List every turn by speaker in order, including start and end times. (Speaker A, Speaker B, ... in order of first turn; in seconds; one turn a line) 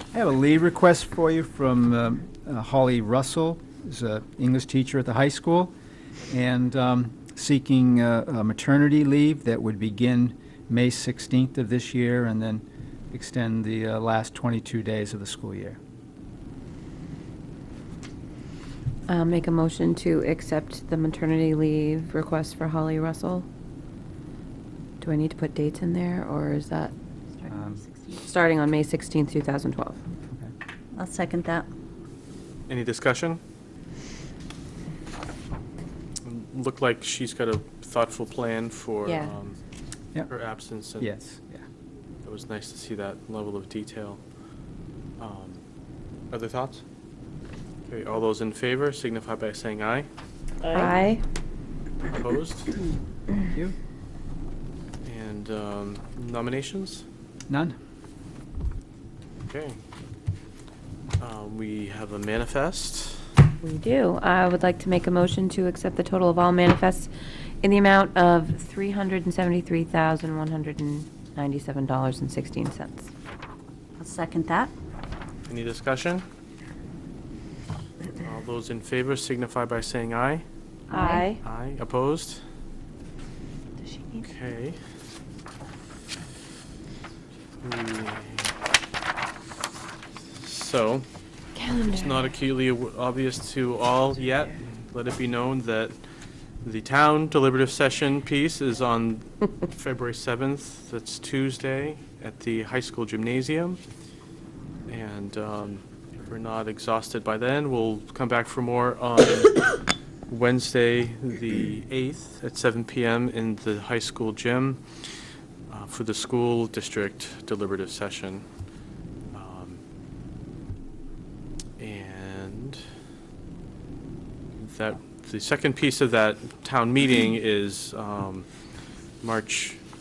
Speaker A: 0.1-5.7
Speaker A: 6.3-15.8
Speaker B: 19.1-23.4
Speaker B: 25.0-26.9
Speaker C: 27.3-28.3
Speaker A: 27.5-27.8
Speaker B: 28.2-30.0
Speaker C: 30.9-31.7
Speaker D: 32.7-33.4
Speaker D: 36.2-39.6
Speaker B: 39.0-39.3
Speaker D: 40.3-41.1
Speaker A: 41.0-41.6
Speaker D: 42.2-44.2
Speaker D: 45.2-45.6
Speaker D: 46.3-46.8
Speaker D: 47.9-50.1
Speaker B: 50.7-51.2
Speaker D: 52.1-52.8
Speaker D: 55.0-57.0
Speaker A: 57.5-57.8
Speaker D: 59.4-59.8
Speaker D: 61.2-63.2
Speaker B: 63.6-67.1
Speaker B: 67.6-73.1
Speaker C: 74.0-74.7
Speaker D: 75.5-76.2
Speaker D: 78.1-80.4
Speaker C: 80.9-81.3
Speaker B: 80.9-81.4
Speaker D: 81.4-82.4
Speaker B: 83.9-84.2
Speaker D: 84.2-84.8
Speaker D: 87.6-88.5
Speaker D: 90.3-91.1
Speaker B: 91.5-92.3
Speaker D: 91.8-96.0
Speaker D: 96.6-103.8
Speaker D: 104.9-109.7
Speaker D: 110.3-114.8
Speaker D: 115.7-118.4
Speaker D: 119.3-119.8
Speaker D: 121.8-122.8
Speaker D: 124.6-128.5
Speaker D: 129.2-129.8